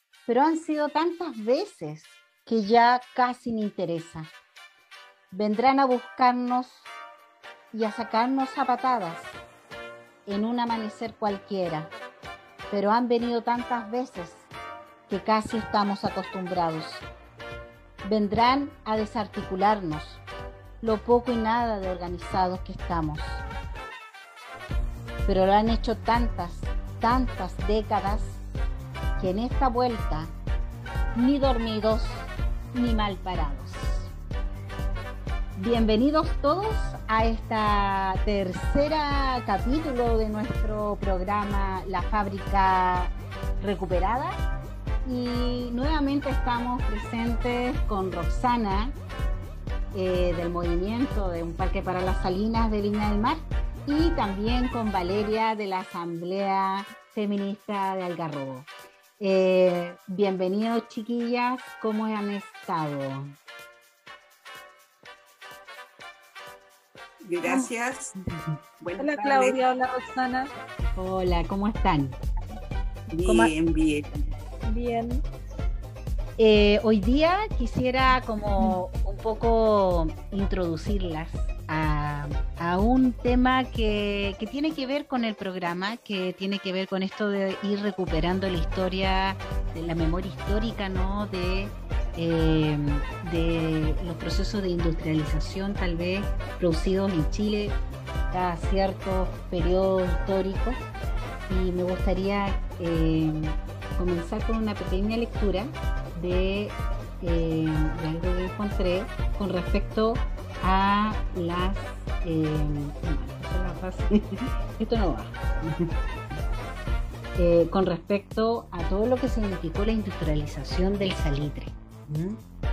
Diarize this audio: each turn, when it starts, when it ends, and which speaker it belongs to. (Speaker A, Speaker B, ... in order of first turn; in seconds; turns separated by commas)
Speaker A: 0.3-4.3, Speaker A: 5.3-6.9, Speaker A: 7.7-9.4, Speaker A: 10.3-11.9, Speaker A: 12.7-14.5, Speaker A: 15.1-17.1, Speaker A: 18.0-20.2, Speaker A: 20.8-23.4, Speaker A: 25.2-28.4, Speaker A: 29.2-30.3, Speaker A: 31.1-34.1, Speaker A: 35.6-44.4, Speaker A: 45.0-48.9, Speaker A: 49.9-58.7, Speaker A: 59.2-63.3, Speaker B: 67.2-68.2, Speaker A: 68.2-68.6, Speaker B: 68.8-69.6, Speaker C: 69.0-70.5, Speaker A: 71.0-72.2, Speaker B: 73.1-74.2, Speaker A: 73.2-73.5, Speaker C: 74.7-75.2, Speaker A: 76.4-97.8, Speaker A: 98.3-100.9, Speaker A: 101.5-115.9, Speaker A: 117.3-122.4